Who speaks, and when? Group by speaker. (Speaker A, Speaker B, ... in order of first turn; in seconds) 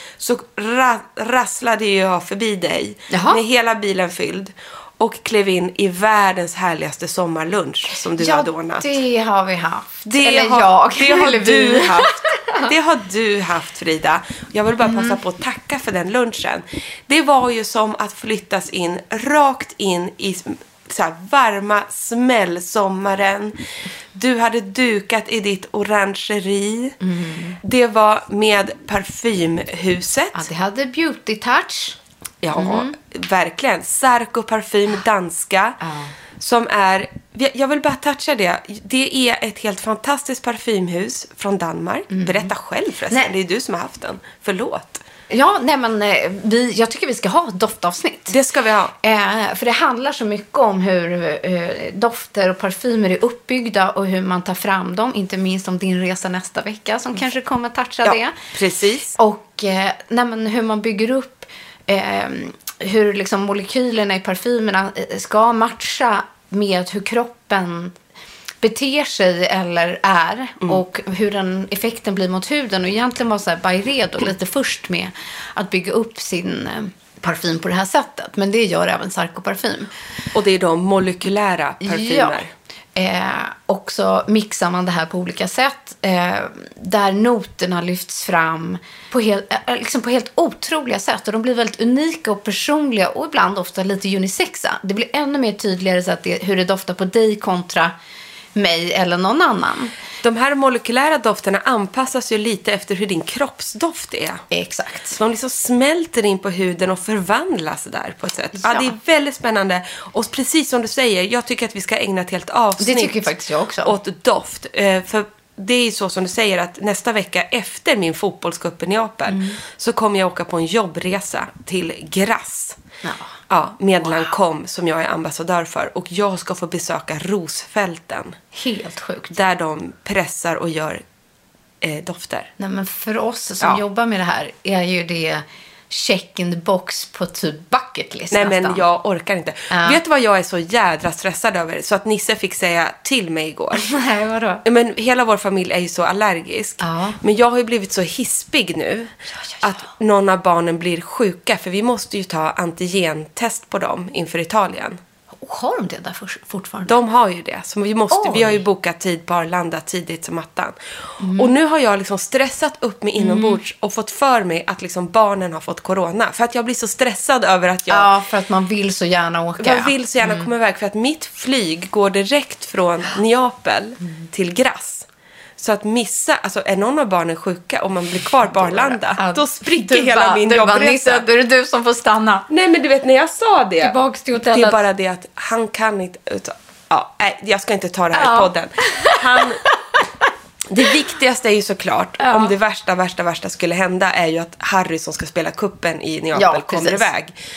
Speaker A: 0.2-8.9, 10.1-23.6, 24.1-27.0, 27.6-30.5, 32.4-35.8, 36.4-45.0, 48.3-48.9, 58.0-59.1, 80.3-82.5, 100.2-104.4, 105.1-122.8, 123.5-128.4, 129.3-131.0, 131.8-132.5, 138.3-143.8, 144.6-155.0, 156.8-160.8, 161.3-168.1, 169.6-175.1, 175.6-181.2, 182.5-189.6, 190.7-197.3
Speaker B: 3.1-3.4, 8.2-12.7, 14.8-15.2, 27.0-27.6, 30.3-32.0, 32.5-32.9, 35.8-36.1, 42.1-42.5, 45.3-48.3, 49.0-58.3, 59.2-67.9, 68.6-79.9, 81.8-82.4, 83.0-97.9, 98.5-99.9, 104.5-105.2, 108.6-108.9, 112.8-113.9, 119.3-119.6, 123.0-123.3, 124.0-124.3, 128.5-129.3, 132.6-138.8, 139.7-140.0, 143.8-144.6, 146.8-147.2, 155.4-156.9, 158.1-158.6, 161.2-161.5, 163.2-163.6, 167.9-170.5, 178.5-182.5, 183.8-184.8, 188.1-189.4, 192.2-192.5, 196.3-197.1